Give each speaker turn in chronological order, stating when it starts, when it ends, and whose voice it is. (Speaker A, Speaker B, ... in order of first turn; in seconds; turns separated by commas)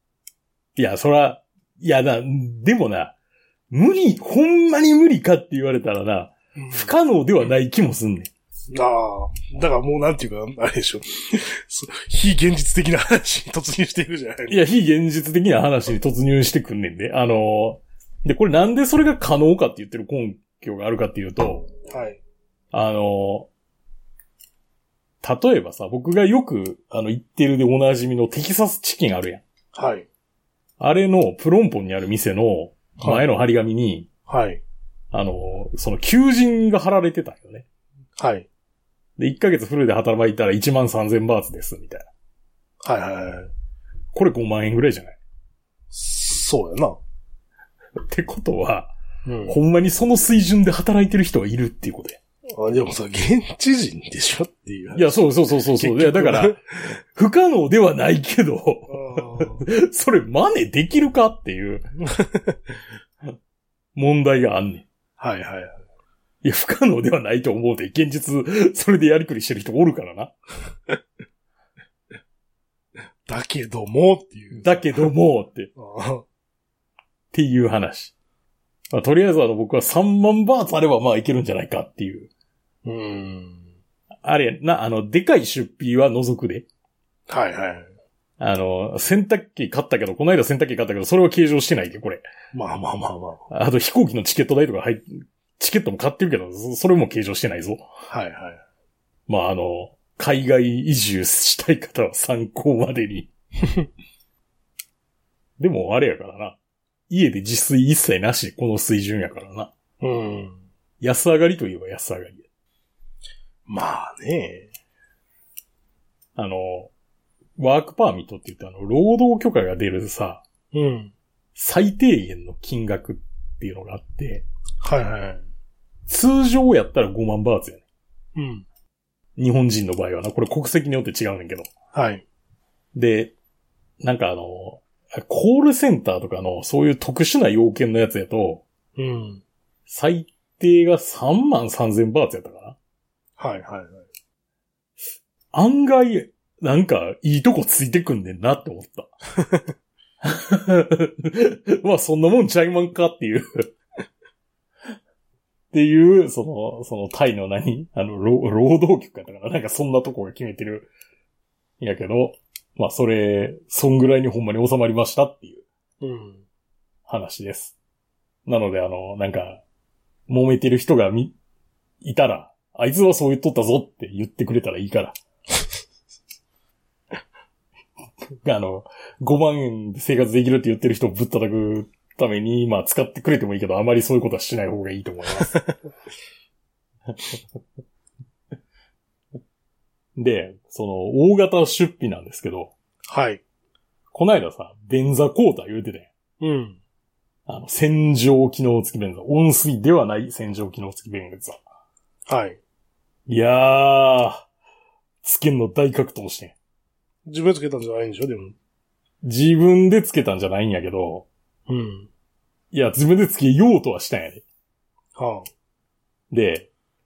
Speaker A: 0.8-3.1, Speaker A: 3.7-8.3, Speaker B: 6.5-6.9, Speaker B: 8.7-14.6, Speaker A: 14.5-21.7, Speaker B: 21.9-22.2, Speaker A: 22.7-23.5, Speaker A: 25.2-29.4, Speaker B: 29.7-30.1, Speaker A: 30.8-34.1, Speaker B: 33.0-33.2, Speaker B: 34.3-34.6, Speaker A: 35.1-37.6, Speaker B: 38.2-38.5, Speaker A: 39.2-42.1, Speaker B: 42.8-43.5, Speaker A: 44.1-45.2, Speaker B: 45.9-47.0, Speaker A: 48.1-48.9, Speaker B: 49.2-49.6, Speaker A: 49.5-52.2, Speaker B: 52.5-55.2, Speaker A: 54.9-61.9, Speaker B: 55.7-56.6, Speaker B: 58.9-59.6, Speaker A: 64.0-64.8, Speaker B: 65.2-65.8, Speaker A: 66.4-70.3, Speaker B: 73.2-75.1, Speaker A: 74.5-75.7, Speaker B: 75.8-76.2, Speaker A: 77.3-78.1, Speaker A: 78.9-82.3, Speaker B: 82.8-83.6, Speaker A: 84.2-86.7, Speaker B: 87.3-87.9, Speaker A: 88.4-92.2, Speaker B: 92.5-93.4, Speaker A: 93.5-97.9, Speaker B: 98.1-98.6, Speaker A: 99.3-103.3, Speaker A: 105.6-106.6, Speaker A: 107.1-109.7, Speaker B: 110.0-110.6, Speaker A: 111.0-112.4, Speaker B: 113.7-114.7, Speaker A: 116.3-116.9, Speaker A: 117.6-120.4, Speaker B: 120.7-121.1, Speaker A: 121.5-124.5, Speaker B: 124.8-125.4, Speaker A: 126.1-127.8, Speaker B: 128.3-128.7, Speaker A: 129.4-131.7, Speaker B: 131.9-132.2, Speaker A: 132.9-133.3, Speaker A: 134.0-138.6, Speaker B: 138.9-139.4, Speaker A: 139.9-142.8, Speaker B: 143.4-144.0, Speaker A: 145.5-149.1, Speaker A: 150.2-153.7, Speaker A: 155.7-160.9, Speaker A: 161.8-165.6, Speaker B: 166.0-166.4, Speaker A: 167.1-167.8, Speaker A: 168.4-169.6, Speaker A: 170.3-171.3, Speaker A: 172.0-175.2, Speaker A: 178.4-185.6, Speaker A: 190.2-192.7, Speaker B: 193.1-193.4, Speaker A: 194.1-196.1, Speaker B: 196.4-196.8, Speaker A: 197.5-201.6, Speaker B: 202.3-202.6, Speaker A: 203.3-204.5, Speaker A: 205.2-206.6, Speaker B: 207.2-208.6, Speaker A: 209.2-211.3, Speaker B: 211.7-212.1, Speaker A: 212.7-214.4, Speaker B: 215.1-215.5, Speaker A: 216.3-216.7